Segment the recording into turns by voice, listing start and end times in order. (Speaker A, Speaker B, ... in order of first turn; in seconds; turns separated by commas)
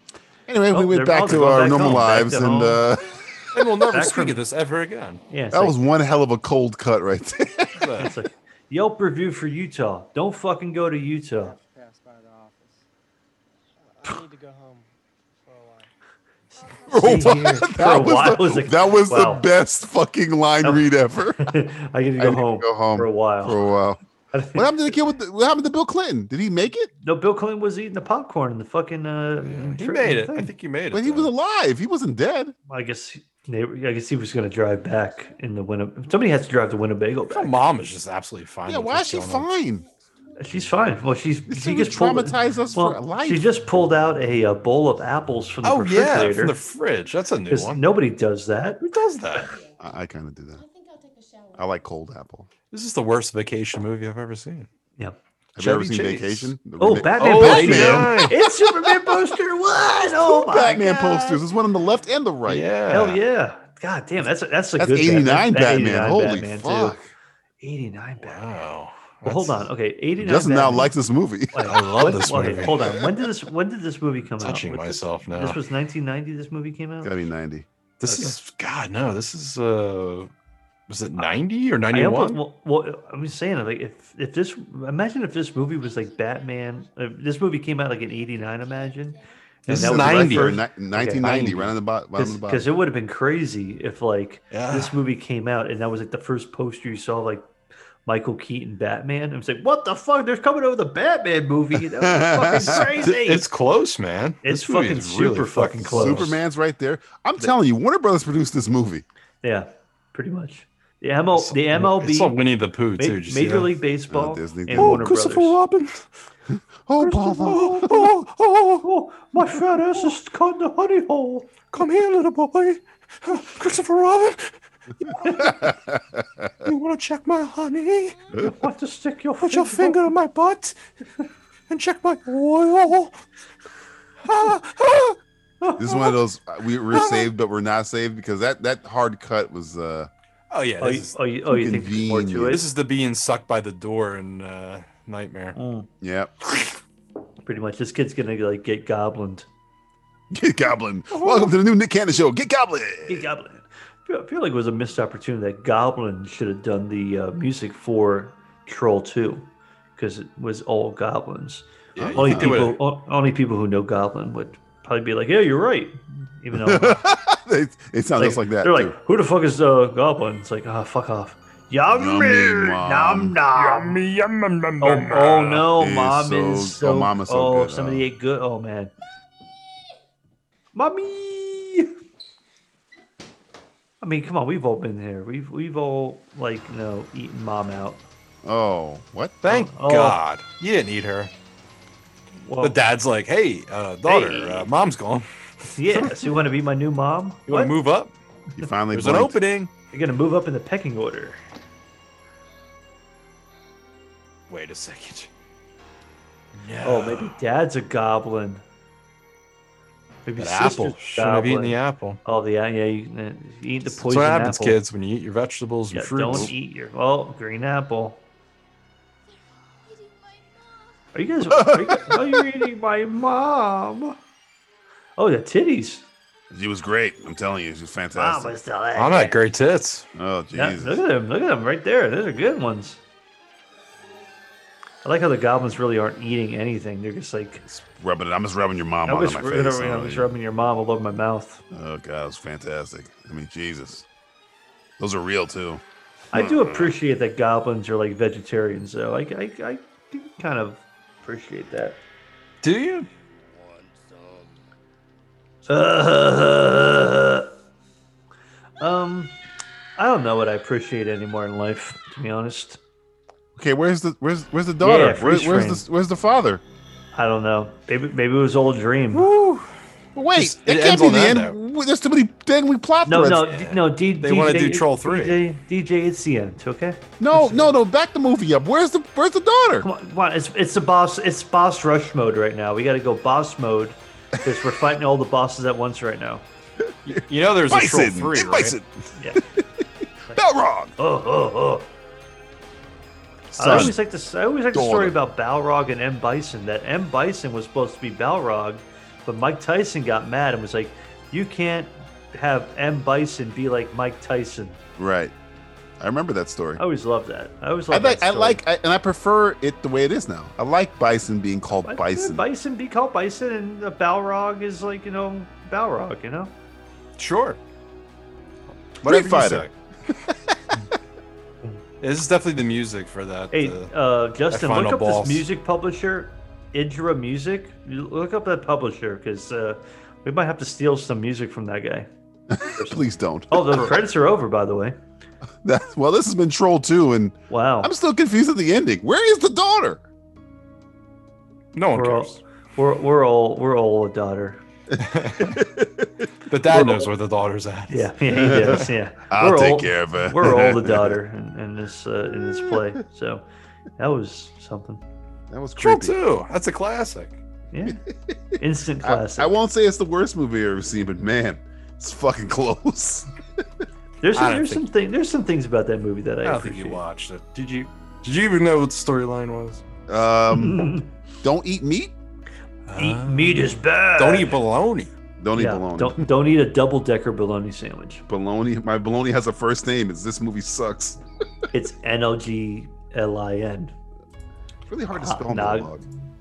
Speaker A: 0.5-3.6, Speaker B: 0.7-2.8, Speaker C: 3.5-5.2, Speaker B: 3.9-4.4, Speaker B: 5.3-5.8, Speaker A: 5.5-7.9, Speaker C: 7.8-8.1, Speaker B: 8.0-11.6, Speaker D: 11.4-12.8, Speaker D: 13.8-15.9, Speaker E: 16.6-17.0, Speaker A: 16.9-21.5, Speaker B: 16.9-19.5, Speaker B: 20.6-20.9, Speaker B: 21.4-23.6, Speaker A: 22.2-24.0, Speaker B: 24.3-25.0, Speaker A: 24.5-26.9, Speaker B: 27.0-30.5, Speaker C: 29.4-31.3, Speaker A: 30.9-32.5, Speaker B: 32.7-37.6, Speaker E: 35.0-35.4, Speaker C: 37.3-39.5, Speaker A: 38.7-39.9, Speaker E: 39.6-42.9, Speaker B: 40.4-46.6, Speaker A: 41.5-43.5, Speaker C: 45.6-47.8, Speaker B: 47.5-48.8, Speaker C: 48.8-49.6, Speaker E: 49.4-49.9, Speaker A: 49.8-50.6, Speaker E: 50.6-51.9, Speaker A: 51.6-52.5, Speaker C: 52.7-54.7, Speaker A: 55.6-59.3, Speaker C: 55.6-56.5, Speaker B: 56.8-61.4, Speaker C: 57.2-58.4, Speaker A: 60.1-62.7, Speaker C: 62.5-63.2, Speaker B: 62.9-67.0, Speaker A: 64.8-67.1, Speaker B: 67.6-68.5, Speaker C: 68.2-69.7, Speaker B: 69.2-70.9, Speaker A: 70.2-72.0, Speaker B: 71.5-77.1, Speaker C: 71.6-72.9, Speaker A: 72.6-73.2, Speaker C: 74.4-75.6, Speaker A: 77.0-77.7, Speaker C: 78.0-80.3, Speaker B: 78.0-78.4, Speaker C: 80.9-82.4, Speaker B: 81.9-91.6, Speaker E: 85.4-89.4, Speaker C: 89.7-90.6, Speaker A: 89.7-92.7, Speaker C: 91.2-91.7, Speaker B: 92.2-97.5, Speaker C: 94.5-95.0, Speaker B: 98.1-103.5, Speaker A: 102.0-103.1, Speaker C: 103.0-106.4, Speaker B: 104.4-106.3, Speaker A: 105.8-109.0, Speaker B: 109.4-112.4, Speaker C: 111.3-113.7, Speaker B: 113.0-115.6, Speaker A: 114.1-115.1, Speaker C: 114.8-116.0, Speaker A: 116.5-117.9, Speaker B: 117.0-118.1, Speaker C: 117.4-118.9, Speaker B: 118.8-121.5, Speaker C: 119.4-120.1, Speaker C: 121.7-125.8, Speaker B: 125.2-125.6, Speaker A: 125.4-126.5, Speaker C: 126.7-128.2, Speaker B: 128.4-130.0, Speaker C: 129.4-130.8, Speaker C: 131.7-133.2, Speaker C: 134.2-135.2, Speaker B: 135.6-136.2, Speaker A: 135.8-140.1, Speaker C: 140.5-141.2, Speaker B: 140.8-142.7, Speaker A: 141.5-142.6, Speaker C: 142.5-145.6, Speaker B: 145.6-145.9, Speaker A: 146.0-146.3, Speaker B: 147.4-149.5, Speaker A: 150.3-153.3, Speaker C: 151.1-151.5, Speaker B: 153.1-167.0, Speaker C: 162.0-162.8, Speaker A: 162.0-162.6, Speaker A: 166.5-169.0, Speaker B: 168.2-174.0, Speaker A: 171.9-173.4, Speaker C: 173.6-175.7, Speaker B: 174.8-178.9, Speaker A: 175.7-178.1, Speaker B: 180.7-181.9, Speaker B: 184.0-188.0, Speaker A: 188.4-189.4, Speaker C: 189.4-191.3, Speaker B: 189.5-190.2, Speaker B: 192.4-192.8, Speaker C: 192.6-196.3, Speaker B: 194.1-194.7, Speaker B: 195.8-197.8, Speaker C: 197.5-198.2, Speaker A: 198.6-199.4, Speaker C: 198.9-199.7, Speaker B: 199.9-201.4, Speaker C: 204.5-205.3, Speaker C: 206.6-207.4, Speaker B: 206.8-208.6, Speaker B: 210.3-214.8, Speaker C: 210.4-212.2, Speaker C: 213.9-216.5, Speaker B: 215.9-218.2, Speaker E: 219.2-221.2, Speaker B: 221.1-224.2, Speaker A: 221.5-222.6, Speaker B: 225.2-226.1, Speaker A: 226.5-228.6, Speaker B: 228.2-229.4, Speaker C: 229.0-230.1, Speaker A: 230.2-231.0, Speaker B: 230.6-233.0, Speaker B: 235.0-237.6, Speaker A: 237.7-240.3, Speaker B: 239.1-241.6, Speaker A: 241.7-244.1, Speaker A: 245.0-245.8, Speaker B: 246.3-252.0, Speaker A: 246.3-247.0, Speaker C: 252.6-253.1, Speaker B: 255.7-257.5, Speaker B: 258.8-259.3, Speaker B: 260.0-262.8, Speaker A: 263.6-266.6, Speaker B: 264.8-265.8, Speaker B: 267.1-269.3, Speaker C: 269.1-269.7, Speaker A: 270.1-273.6, Speaker C: 270.4-271.6, Speaker B: 273.1-277.7, Speaker C: 273.5-275.4, Speaker A: 277.2-279.9, Speaker B: 279.8-286.4, Speaker A: 286.9-290.9, Speaker C: 287.1-288.8, Speaker B: 291.0-291.9, Speaker C: 293.5-294.0, Speaker B: 293.6-304.8, Speaker A: 293.6-294.0, Speaker A: 294.7-295.1, Speaker A: 305.0-305.3, Speaker A: 306.0-306.8, Speaker B: 306.8-308.6, Speaker A: 307.9-312.5, Speaker B: 311.8-316.5, Speaker C: 317.2-317.6, Speaker C: 319.0-319.7, Speaker A: 319.0-319.7, Speaker A: 320.3-320.6, Speaker C: 322.0-323.9, Speaker B: 323.5-332.1, Speaker C: 324.5-325.5, Speaker A: 332.5-334.1, Speaker B: 332.6-335.0, Speaker A: 335.6-340.0, Speaker B: 337.5-337.9, Speaker C: 341.7-342.4, Speaker B: 341.9-344.6, Speaker A: 345.0-347.1, Speaker C: 345.0-345.6, Speaker C: 346.5-348.9, Speaker B: 347.9-353.4, Speaker A: 348.3-351.2, Speaker A: 352.4-353.0, Speaker B: 354.0-355.0, Speaker A: 355.5-356.2, Speaker C: 355.8-357.4, Speaker B: 357.7-358.0, Speaker A: 357.9-363.3, Speaker B: 358.6-359.6, Speaker B: 364.2-367.0, Speaker C: 364.4-364.9, Speaker C: 366.4-369.8, Speaker A: 370.1-370.9, Speaker B: 370.5-371.1, Speaker A: 371.4-372.1, Speaker C: 372.9-375.1, Speaker B: 373.0-374.6, Speaker A: 375.4-376.3, Speaker B: 375.6-378.2, Speaker A: 378.3-381.2, Speaker B: 381.7-383.9, Speaker A: 384.9-386.1, Speaker B: 385.1-385.9